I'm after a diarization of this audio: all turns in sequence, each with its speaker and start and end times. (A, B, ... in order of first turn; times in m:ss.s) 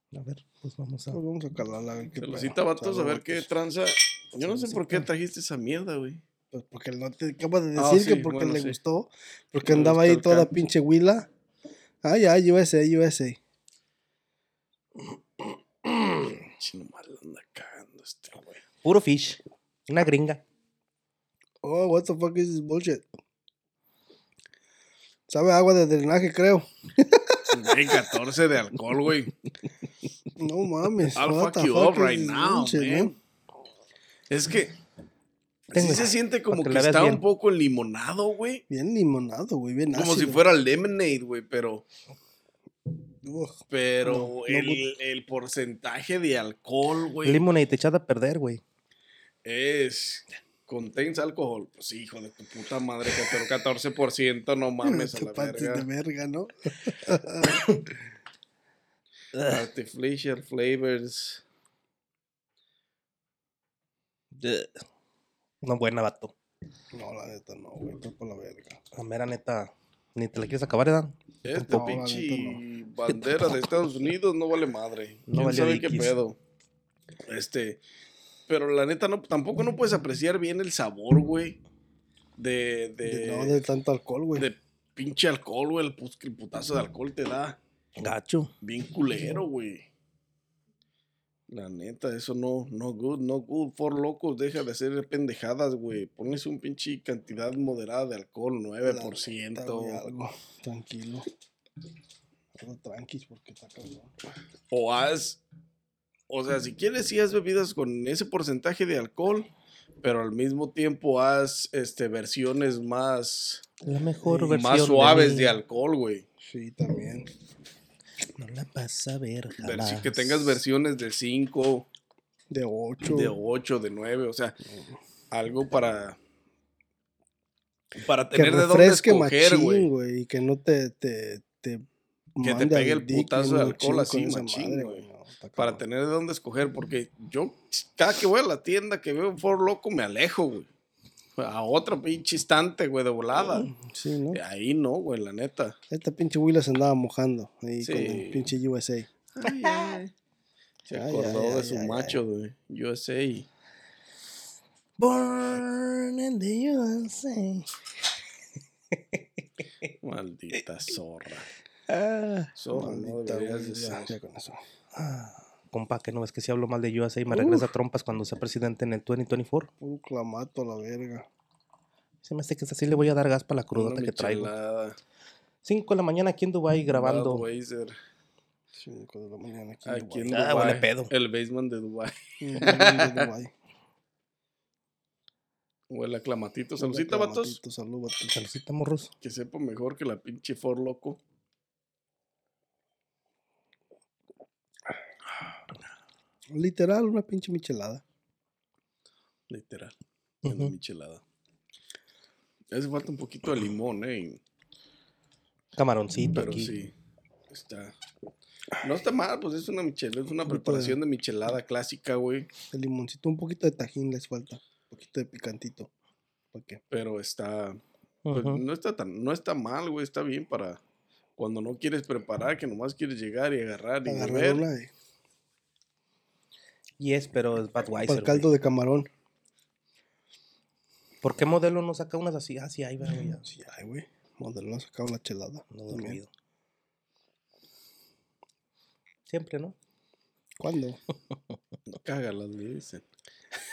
0:00.1-0:01.2 A
0:01.1-0:03.5 B
0:02.2-0:06.2 C
0:06.5-0:11.3 B
0:07.8-0:08.8 C
0:09.6-0:10.5 C
0:12.0-0:13.4 B
0:16.4-0:18.6 C
0:18.8-0:20.4 A
0:21.6-0:23.1 B
0:25.3-0:27.8 B
0:27.5-0:29.3 C
0:30.4-0:33.1 B
0:31.1-0:33.2 C
0:34.3-0:34.7 C
0:35.7-0:38.6 C
0:35.7-0:37.2 A
0:38.7-0:40.4 B
0:39.9-0:41.8 C
0:43.2-0:44.8 B
0:43.7-0:47.4 C
0:47.2-0:48.6 A
0:49.4-0:55.8 C
0:54.8-0:57.7 B
0:59.4-1:01.4 C
1:04.3-1:04.8 A
1:05.6-1:06.3 A
1:06.9-1:08.8 B
1:08.9-1:12.0 A
1:11.4-1:16.4 C
1:11.7-1:12.6 B
1:15.3-1:16.2 A
1:17.3-1:17.8 C
1:18.5-1:21.6 C
1:22.4-1:23.6 C
1:23.0-1:24.5 B
1:24.4-1:27.6 C
1:28.0-1:28.5 A
1:28.6-1:29.8 C
1:31.5-1:40.0 C
1:38.8-1:41.2 B
1:42.5-1:44.1 B
1:44.7-1:45.4 C
1:46.3-1:49.5 C
1:50.0-1:53.7 C
1:53.8-1:55.6 A
1:54.2-1:56.3 C
1:56.4-1:57.3 B
1:58.4-2:00.6 A
1:59.6-2:01.9 C
2:02.5-2:03.3 B
2:03.1-2:04.6 C
2:04.6-2:05.0 B
2:05.3-2:06.2 C
2:08.0-2:09.9 C
2:08.3-2:15.8 B
2:12.4-2:15.0 C
2:15.6-2:20.7 C
2:21.4-2:23.7 C
2:23.5-2:24.4 B
2:24.3-2:25.8 C
2:25.9-2:29.1 B
2:27.8-2:28.5 C
2:29.3-2:30.1 C
2:29.6-2:30.0 A
2:30.8-2:33.5 C
2:30.9-2:32.2 B
2:35.0-2:37.7 A
2:38.9-2:39.2 A
2:40.0-2:41.5 C
2:41.9-2:42.5 A
2:42.5-2:44.1 C
2:42.7-2:44.6 B
2:44.9-2:49.7 A
2:49.8-2:51.3 B
2:52.2-2:54.5 A
2:53.7-2:55.0 C
2:55.6-2:57.4 A
2:56.9-2:58.0 C
2:58.8-3:00.4 B
2:59.8-3:03.3 C
3:00.3-3:01.1 A
3:02.4-3:03.5 B
3:05.9-3:07.6 C
3:06.8-3:08.4 B
3:08.3-3:09.1 A
3:09.2-3:11.2 C
3:16.5-3:18.0 B
3:19.5-3:21.2 C
3:20.4-3:20.7 A
3:22.7-3:24.4 C
3:25.8-3:26.7 A
3:26.3-3:26.9 C
3:27.5-3:27.9 C
3:28.8-3:32.5 C
3:30.4-3:31.0 B
3:32.7-3:35.9 B
3:36.5-3:36.8 B
3:36.9-3:37.8 C
3:38.2-3:38.6 A
3:38.3-3:40.8 C
3:41.4-3:44.6 C
3:44.0-3:44.9 B
3:47.0-3:48.5 A
3:48.0-3:49.1 B
3:51.2-3:53.4 A
3:53.4-3:56.2 B
3:55.7-3:56.3 A
3:59.3-3:59.7 A
4:00.6-4:01.0 B
4:01.9-4:03.1 C